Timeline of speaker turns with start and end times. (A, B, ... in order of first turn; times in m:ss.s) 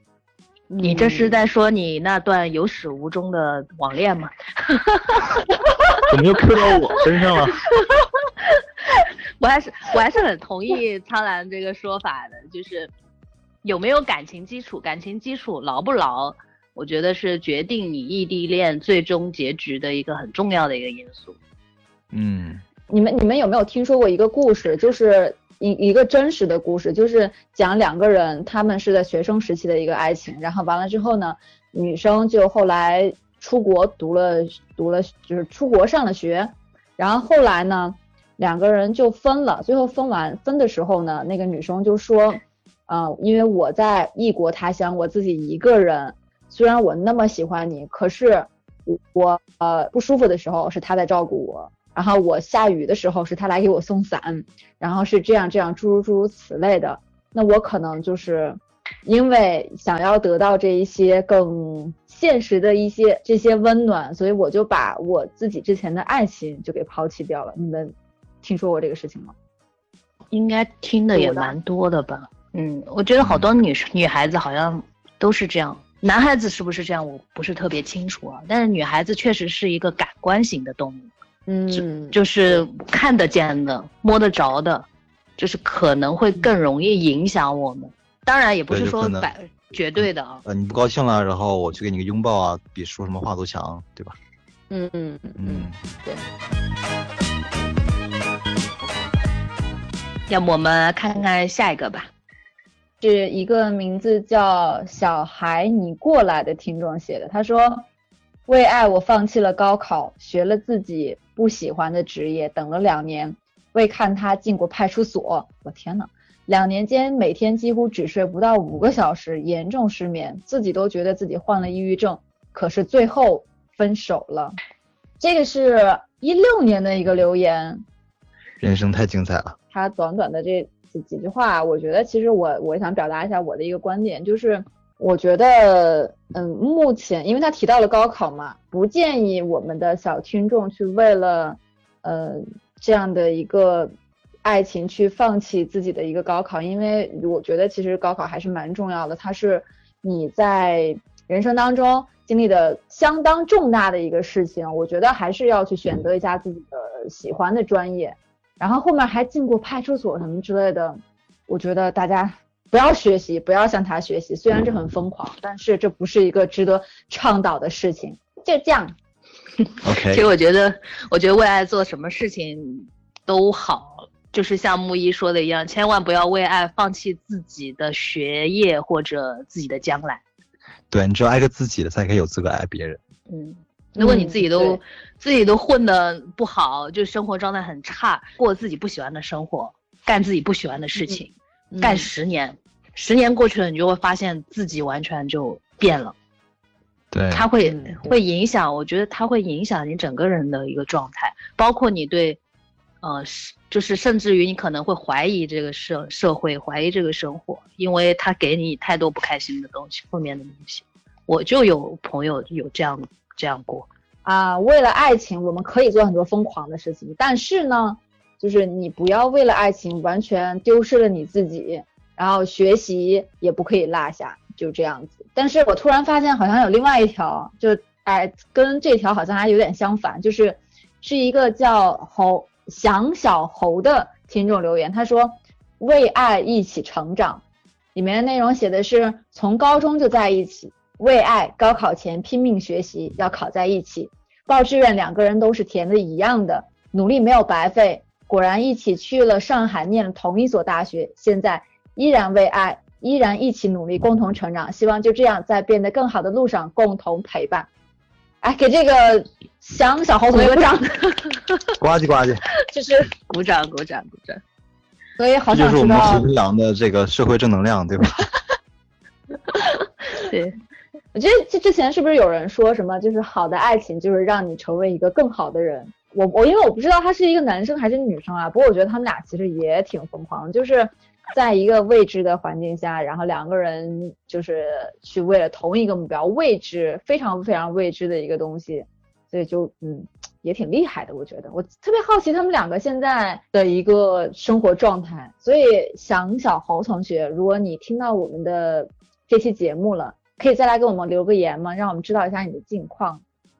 0:00.7-0:01.4 A
0:00.8-0:05.3 B
0:06.1-0:07.6 C
0:08.5-0:12.9 B
0:13.6-0:21.4 B
0:22.1-0:22.6 C
0:22.9-1:09.3 A
1:10.3-1:21.1 B
1:11.1-1:11.5 A
1:13.2-1:13.5 C
1:21.5-1:22.2 A
1:21.7-1:24.9 B
1:25.4-1:30.4 B
1:28.7-1:29.3 C
1:30.0-1:34.2 C
1:34.7-1:36.2 A
1:35.4-1:35.8 C
1:40.3-1:42.1 B
1:43.0-1:47.8 A
1:48.5-2:04.6 A
2:05.2-2:07.8 A
2:08.6-2:09.6 C
2:09.7-2:48.9 A
2:49.8-2:50.2 C
2:50.0-3:00.2 B
3:00.9-3:03.0 C
3:03.3-3:16.1 B
3:04.0-3:04.8 A
3:11.7-3:12.1 A
3:17.1-3:17.4 C
3:17.3-3:22.4 B
3:17.6-3:18.1 A
3:23.0-3:33.9 B
3:34.2-3:57.4 A
3:57.9-4:17.7 A
4:18.4-4:20.9 A
4:20.3-4:21.7 B
4:21.8-4:22.4 C
4:22.7-4:23.1 A
4:23.3-4:24.4 B
4:25.2-4:26.3 A
4:25.5-4:28.2 C
4:29.5-4:30.6 B
4:31.1-5:03.2 A